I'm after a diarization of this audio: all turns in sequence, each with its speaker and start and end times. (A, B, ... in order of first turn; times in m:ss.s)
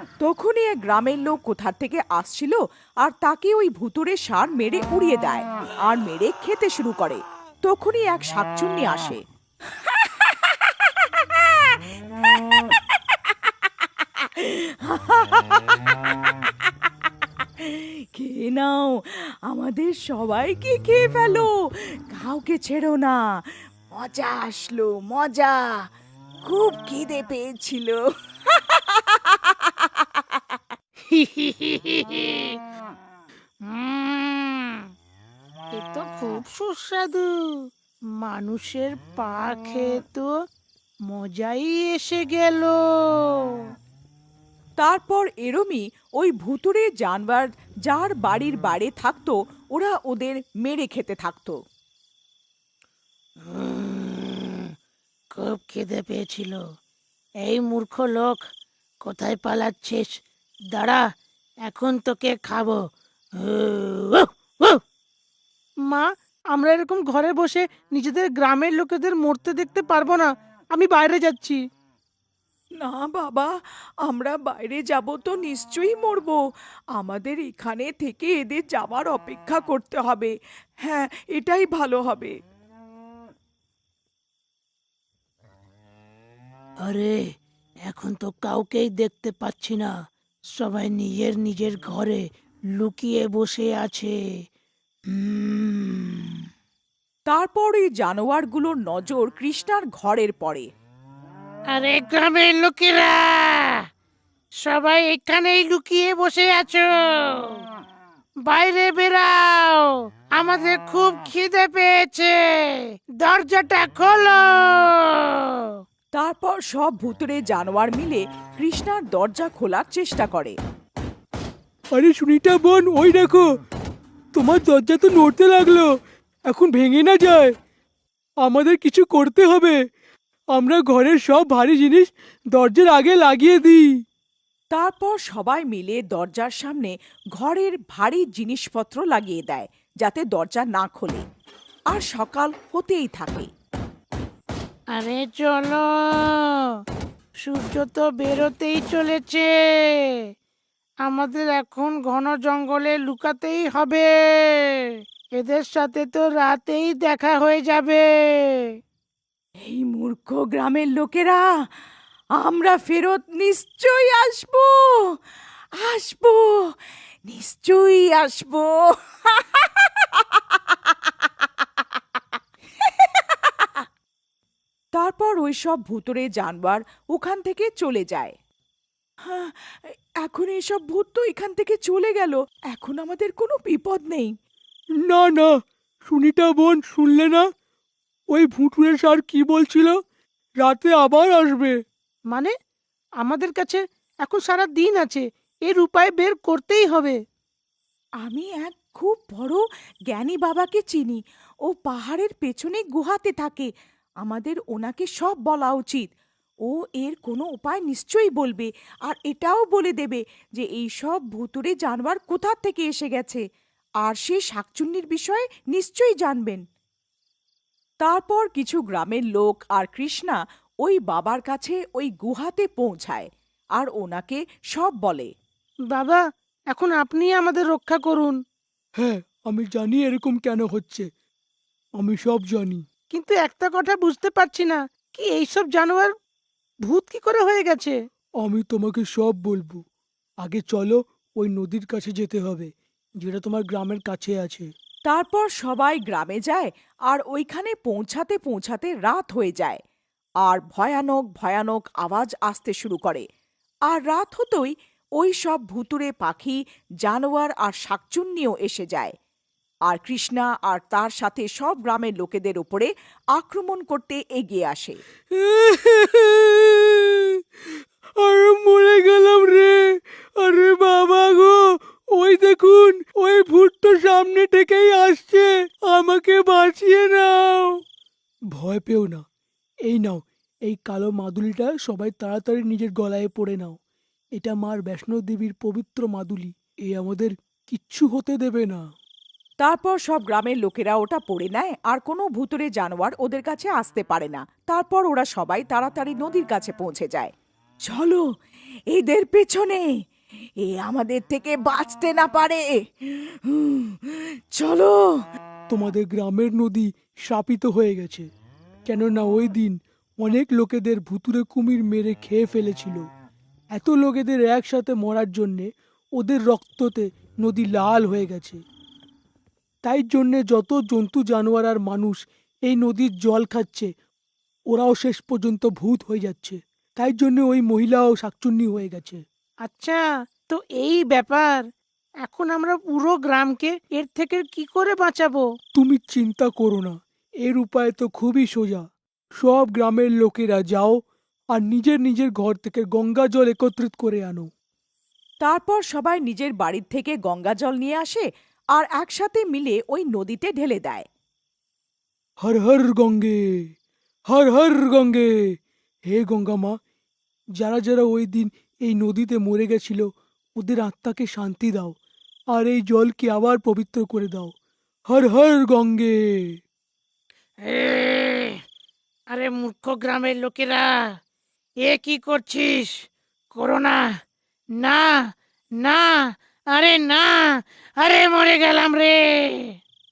0:00.2-0:09.2 A
0:09.7-0:16.2 A
0:17.6-0:21.5 A
0:22.1-0:23.2 A
0:24.0-0:25.8 A
0:26.4-0:30.6 A
0:31.1-0:32.5 B
0:33.7-0:34.8 B
0:35.8-0:37.3 B
0:38.2-0:40.3 B
0:41.1-0:43.3 B
0:44.8-0:51.6 A
0:53.5-0:54.7 B
0:55.4-0:56.6 B
0:57.4-0:58.4 B
0:59.0-1:00.2 B
1:00.7-1:01.0 B
1:01.7-1:02.8 B
1:03.4-1:04.8 B
1:05.9-1:11.6 B
1:12.8-1:13.5 A
1:14.0-1:16.4 A
1:17.0-1:22.4 A
1:26.8-1:27.2 B
1:27.9-1:29.9 B
1:30.6-1:32.2 B
1:32.8-1:34.2 B
1:35.1-1:36.3 B
1:37.3-1:40.7 A
1:41.7-1:43.8 B
1:44.6-1:47.5 B
1:48.5-1:55.7 B
1:56.1-2:00.5 A
2:01.9-2:03.4 C
2:04.3-2:05.9 C
2:06.5-2:07.5 C
2:08.4-2:09.8 C
2:10.5-2:13.9 C
2:14.7-2:21.2 A
2:21.9-2:23.5 A
2:24.9-2:26.6 B
2:27.4-2:30.1 B
2:31.0-2:38.7 B
2:39.6-2:41.4 A
2:42.4-2:45.0 A
2:45.8-2:46.5 A
2:47.3-2:51.1 A
2:52.8-2:53.8 A
2:54.9-2:58.3 A
2:59.3-2:59.7 A
3:00.2-3:04.3 A
3:05.1-3:05.5 C
3:06.1-3:07.4 C
3:08.3-3:10.0 C
3:10.6-3:11.8 C
3:13.2-3:17.2 B
3:18.2-3:23.7 A
3:24.2-3:26.1 A
3:26.6-3:33.4 A
3:34.0-3:36.6 A
3:38.0-3:45.3 A
3:45.9-3:48.4 B
3:49.0-3:51.1 C
3:52.0-3:52.8 C
3:53.1-3:56.1 B
3:56.8-3:58.0 B
3:58.4-3:59.8 C
4:00.4-4:04.7 C
4:05.0-4:09.8 A
4:10.4-4:13.2 A
4:13.9-4:19.1 A
4:19.9-4:25.0 A
4:25.3-4:27.4 C
4:28.2-4:29.8 C
4:30.4-4:31.6 C
4:32.2-4:37.8 C
4:38.5-4:39.2 C
4:39.9-4:43.8 C
4:44.4-4:48.8 C
4:49.6-4:57.3 A
4:57.9-4:58.2 A
4:58.9-4:59.8 A
5:00.6-5:05.2 A
5:05.7-5:08.3 C
5:08.9-5:13.0 C
5:13.7-5:18.6 C
5:19.8-5:23.9 C
5:24.7-5:29.2 C
5:29.6-5:31.6 B
5:32.2-5:35.4 B
5:35.7-5:38.8 C
5:39.4-5:41.0 C
5:41.5-5:44.5 C
5:45.4-5:51.0 A
5:52.4-5:53.5 C
5:54.3-5:55.3 C
5:56.1-5:56.7 C
5:57.6-6:00.1 C
6:00.6-6:01.9 C
6:02.5-6:04.5 C
6:05.1-6:06.5 C
6:07.6-6:08.6 B
6:09.3-6:11.1 B
6:11.8-6:13.0 B
6:13.5-6:14.0 B
6:14.8-6:15.1 B
6:15.8-6:19.7 B